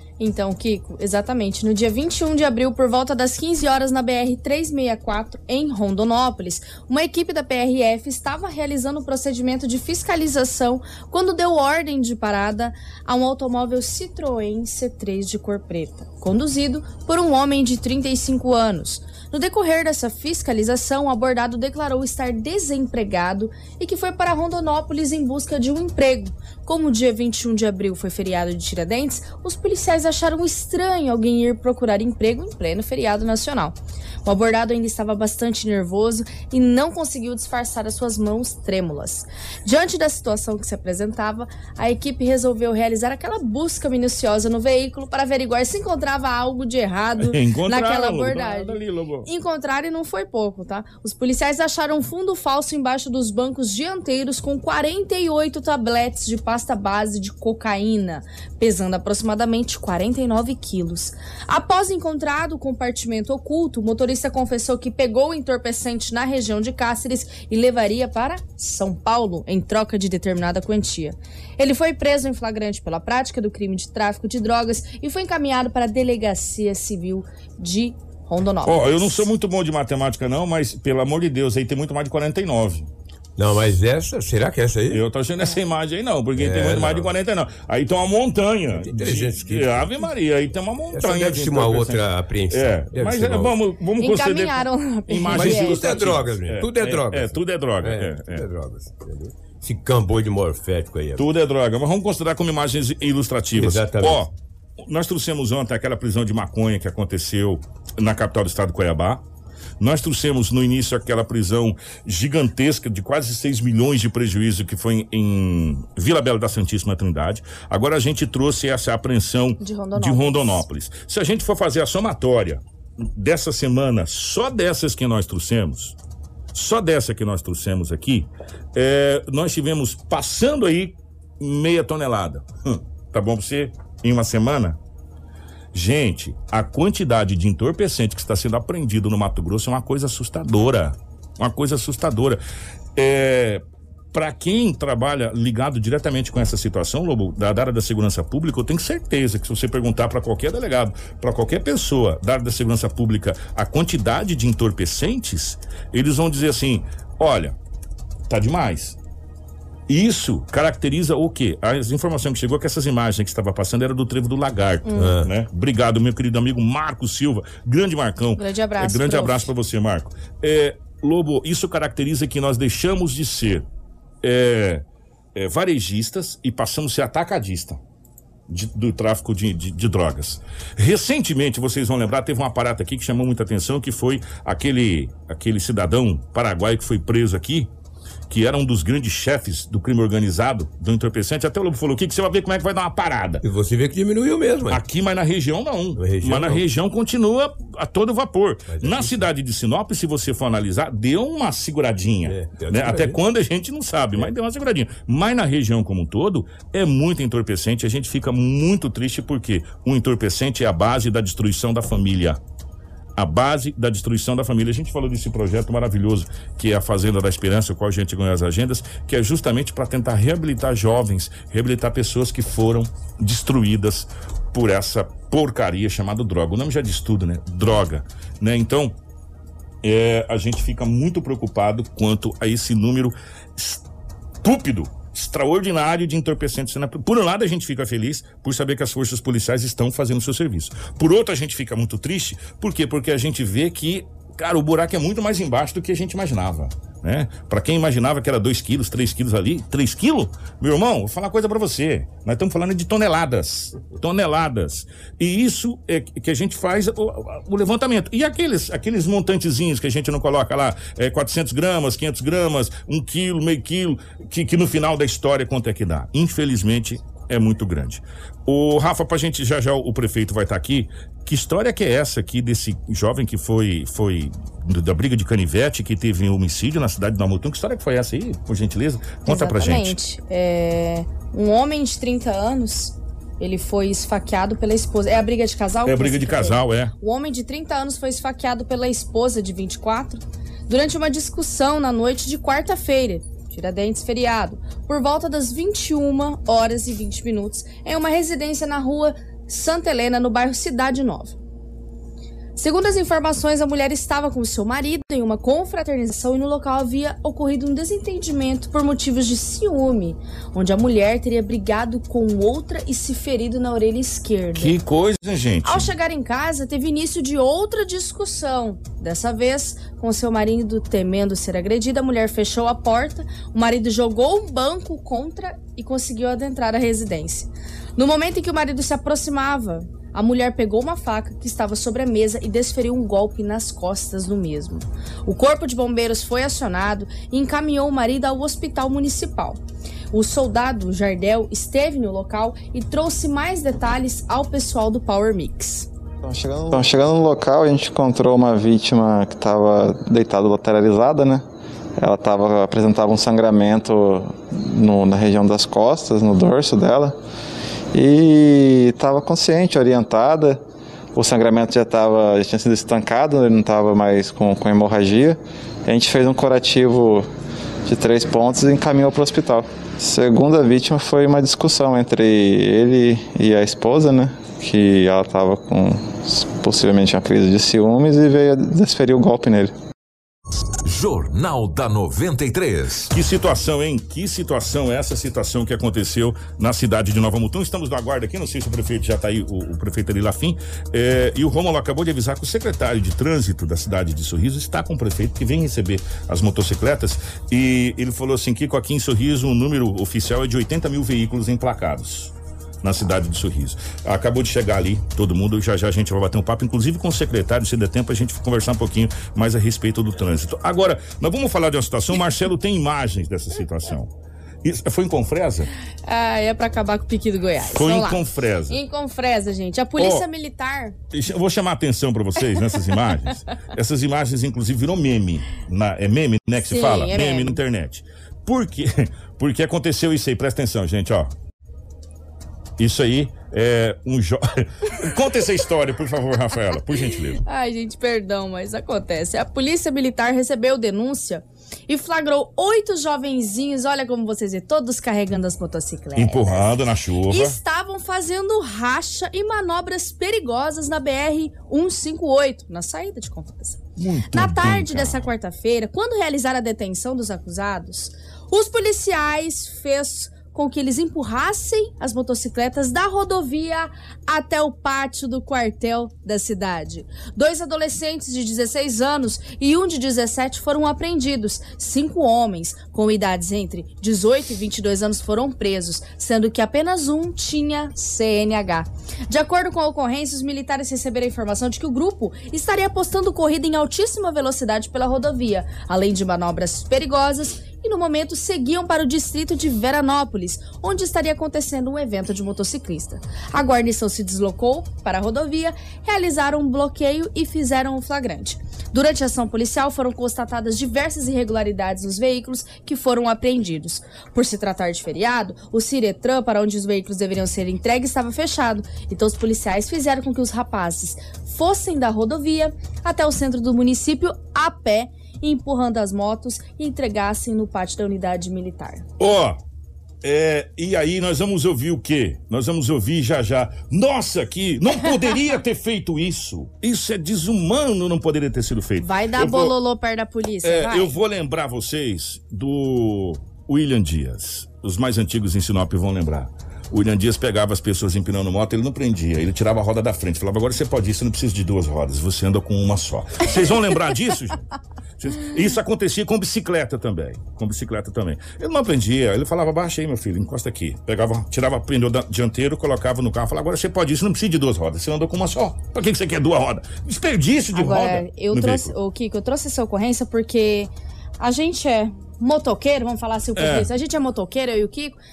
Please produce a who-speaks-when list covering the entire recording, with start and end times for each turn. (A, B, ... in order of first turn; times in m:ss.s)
0:00.2-1:19.3 A
0:47.2-0:49.3 B
1:18.6-1:22.9 B
1:23.4-1:25.0 C
1:24.9-1:38.5 B
1:26.4-1:27.1 C
1:28.7-1:29.9 C
1:30.9-1:33.6 C
1:34.0-1:36.0 A
1:35.3-1:41.3 C
1:41.2-1:49.2 B
1:43.5-1:44.3 C
1:49.8-2:06.0 B
1:59.6-2:00.6 A
2:06.5-2:14.8 B
2:15.7-2:22.4 B
2:23.0-2:37.6 B
2:38.3-2:39.0 B
2:39.9-2:53.6 B
2:44.8-2:45.1 A
2:45.0-2:45.3 C
2:48.4-2:49.5 A
2:54.2-2:57.8 B
2:58.5-3:07.7 B
3:08.3-3:13.4 B
3:13.4-3:14.8 C
3:14.7-3:32.4 B
3:16.0-3:16.6 C
3:18.7-3:19.2 C
3:22.2-3:23.2 C
3:33.2-3:49.0 B
3:49.8-3:53.8 B
3:54.4-4:40.0 B
4:39.3-5:01.4 A
4:45.9-4:46.9 B
5:02.6-5:14.8 A
5:14.5-5:15.9 B
5:15.6-5:39.6 A
5:40.1-5:45.9 A
5:46.3-5:51.4 D
5:52.0-5:57.2 D
5:57.9-6:00.6 D
6:01.1-6:07.3 D
6:07.9-6:19.7 D
6:20.8-6:23.1 E
6:23.1-6:55.7 B
6:56.0-7:01.0 A
6:57.6-6:58.8 B
7:00.0-7:00.3 B
7:01.1-7:11.3 B
7:06.6-7:07.6 A
7:12.8-7:17.4 B
7:17.4-7:26.7 A
7:26.2-7:27.6 B
7:27.3-8:39.0 A
7:34.0-7:35.3 B
8:39.2-8:39.6 B
8:40.2-8:49.8 B
8:49.0-8:51.2 A
8:50.6-9:04.6 B
9:05.2-9:18.9 B
9:17.7-9:25.2 A
9:23.6-9:23.9 B